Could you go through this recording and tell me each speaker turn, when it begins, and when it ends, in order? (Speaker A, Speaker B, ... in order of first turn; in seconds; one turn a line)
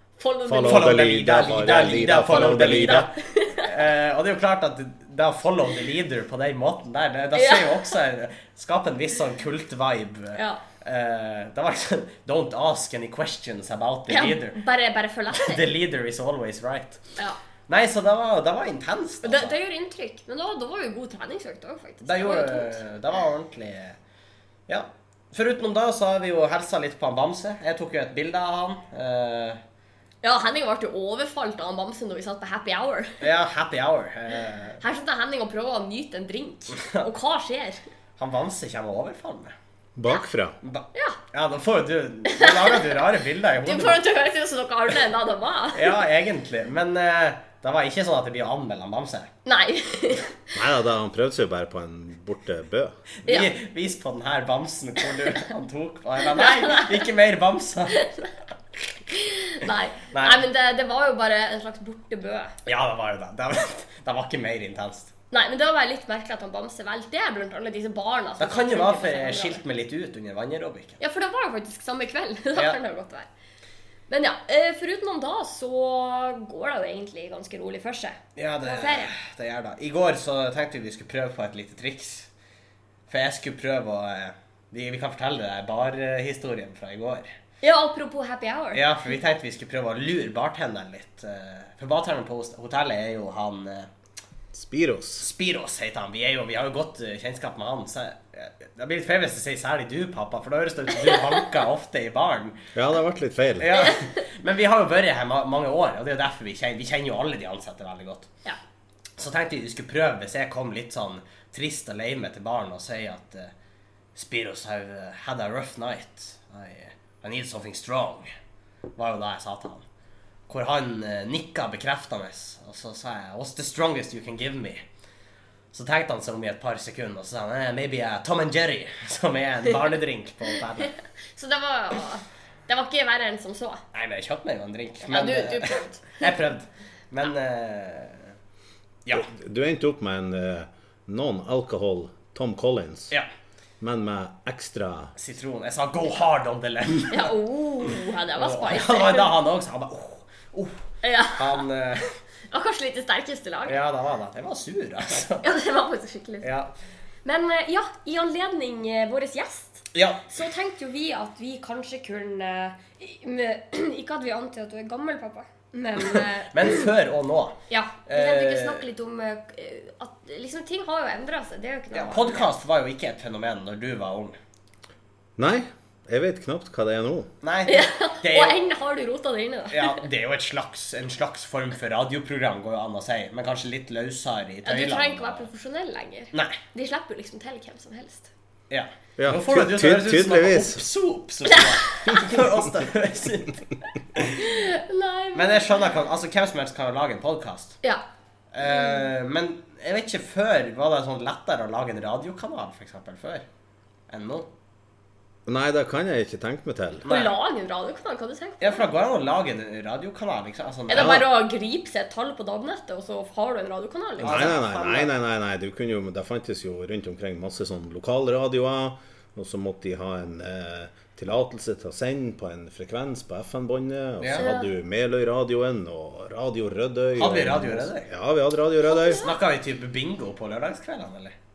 Speaker A: 0.2-0.9
Speaker B: 0.5-3.1
Speaker C: 0.6-14.6
Speaker A: 2.3-3.7
Speaker A: 7.3-8.0
Speaker A: 10.4-10.6
Speaker A: 14.1-15.6
Speaker C: 15.3-17.0
Speaker C: 17.7-19.6
Speaker A: 19.2-22.8
Speaker C: 22.0-24.0
Speaker C: 24.7-29.6
Speaker A: 30.2-33.2
Speaker C: 33.2-34.8
Speaker A: 34.8-37.8
Speaker C: 36.8-37.0
Speaker C: 38.2-39.5
Speaker B: 40.0-40.6
Speaker C: 40.6-44.0
Speaker A: 42.3-46.0
Speaker C: 45.7-49.3
Speaker A: 49.5-50.3
Speaker B: 50.5-53.0
Speaker C: 53.2-58.0
Speaker A: 56.3-57.0
Speaker A: 57.9-58.3
Speaker A: 59.1-62.6
Speaker C: 60.1-60.4
Speaker C: 62.6-65.1
Speaker A: 65.3-69.6
Speaker C: 68.4-71.0
Speaker A: 71.0-73.3
Speaker A: 74.1-79.1
Speaker C: 78.3-82.3
Speaker C: 83.1-87.3
Speaker A: 87.6-88.9
Speaker C: 88.7-93.9
Speaker B: 94.5-95.3
Speaker C: 95.2-102.6
Speaker B: 102.7-103.8
Speaker C: 103.6-108.3
Speaker C: 109.2-113.5
Speaker C: 114.1-118.3
Speaker C: 119.0-119.8
Speaker C: 120.5-124.8
Speaker C: 125.7-130.9
Speaker A: 131.3-133.8
Speaker C: 133.9-138.3
Speaker A: 135.1-136.3
Speaker B: 139.1-143.1
Speaker B: 143.8-145.1
Speaker C: 145.2-147.3
Speaker A: 147.1-149.3
Speaker C: 148.3-152.2
Speaker A: 151.0-151.6
Speaker A: 152.5-153.8
Speaker C: 153.7-155.4
Speaker A: 155.4-156.5
Speaker C: 156.4-156.7
Speaker A: 157.2-166.9
Speaker C: 159.9-160.3
Speaker C: 166.0-167.6
Speaker A: 167.7-172.4
Speaker C: 168.1-168.8
Speaker C: 171.9-174.4
Speaker B: 175.4-177.3
Speaker C: 177.4-178.6
Speaker A: 177.7-180.0
Speaker C: 179.7-185.5
Speaker A: 184.6-188.3
Speaker C: 186.3-186.6
Speaker C: 188.7-194.4
Speaker B: 189.2-190.8
Speaker A: 191.5-192.2
Speaker A: 194.3-195.9
Speaker C: 195.3-197.8
Speaker C: 198.5-203.4
Speaker A: 198.6-199.1
Speaker C: 204.1-204.5
Speaker B: 205.4-207.1
Speaker C: 207.0-207.3
Speaker A: 207.1-208.8
Speaker C: 208.6-211.2
Speaker A: 210.9-214.5
Speaker B: 210.9-211.3
Speaker C: 214.2-215.1
Speaker B: 214.2-229.3
Speaker C: 224.2-224.5
Speaker A: 224.3-224.7
Speaker C: 227.2-228.1
Speaker A: 228.9-229.3
Speaker C: 229.1-231.3